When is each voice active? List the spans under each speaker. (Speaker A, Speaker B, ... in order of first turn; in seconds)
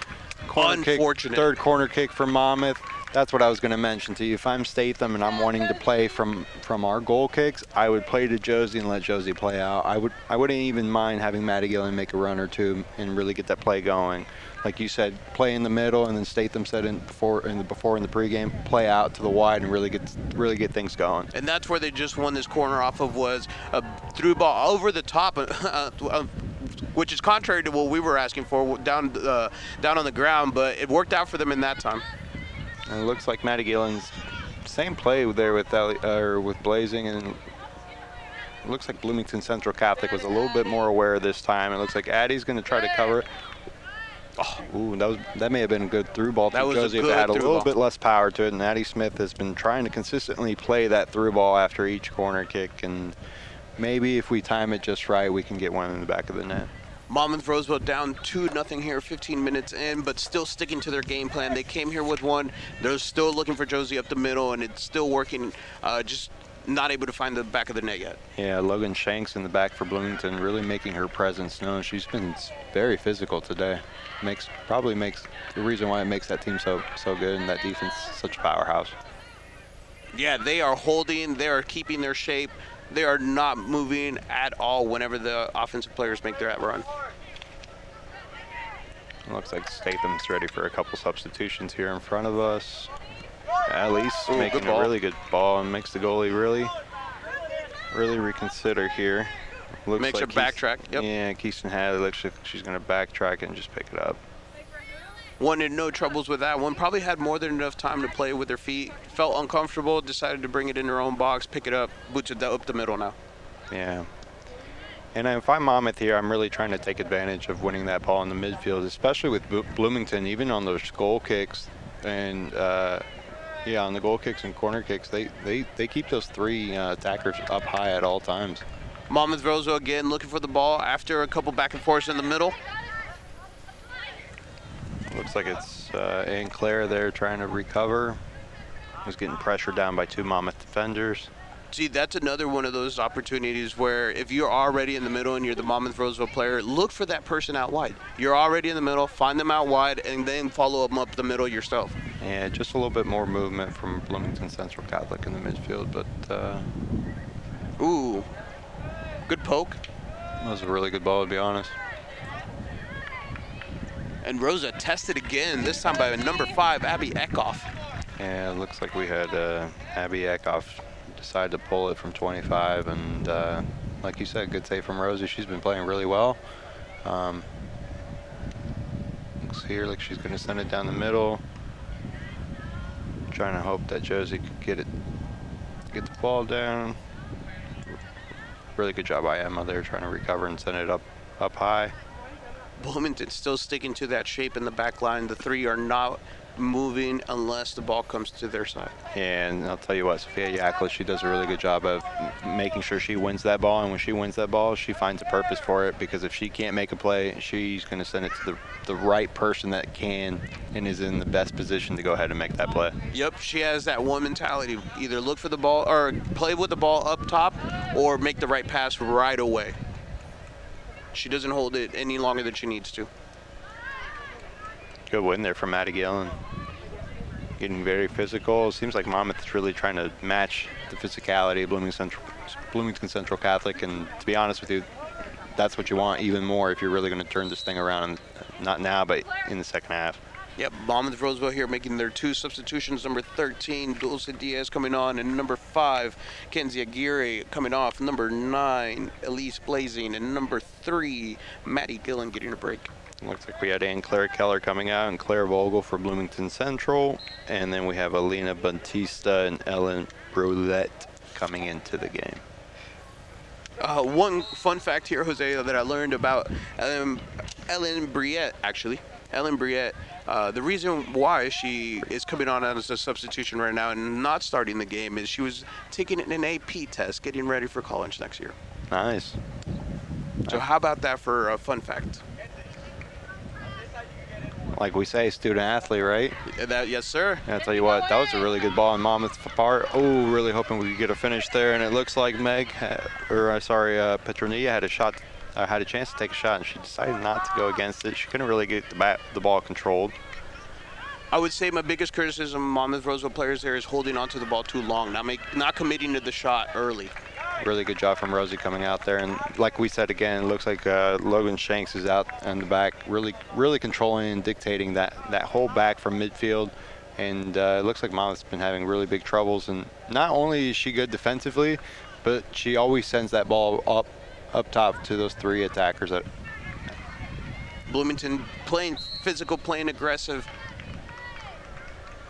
Speaker A: 0.5-21.3, 32.9-37.4, 38.6-43.3, 44.6-53.2, 53.8-56.7, 68.4-79.0, 89.3-92.9, 93.7-96.7, 97.9-99.3, 99.8-104.2, 113.7-114.1, 115.1-123.1, 123.6-128.7, 135.1-138.2, 139.0-141.3, 152.2-156.7, 160.4-161.8, 168.2-176.4, 177.0-177.5, 179.4-181.4, 183.3-184.9, 185.9-187.0, 188.8-191.9, 199.1-213.0, 225.1-226.4, 227.6-234.9, 235.5-240.2, 253.2-262.4, 278.9-279.4, 284.7-286.4, 287.4-300.2, 307.6-326.3
Speaker B: 0.5-1.5, 21.3-32.0, 44.4-44.6, 46.5-47.7, 57.1-68.2, 80.1-86.9, 94.3-94.9, 100.0-101.1, 105.4-113.2, 129.1-132.6, 141.7-152.0, 157.8-158.3, 159.3-159.8, 164.2-167.7, 192.8-199.0, 213.1-219.8, 221.1-223.1, 240.6-252.9, 263.8-278.6, 280.5-282.2, 286.5-287.4, 301.3-307.1, 327.9-330.5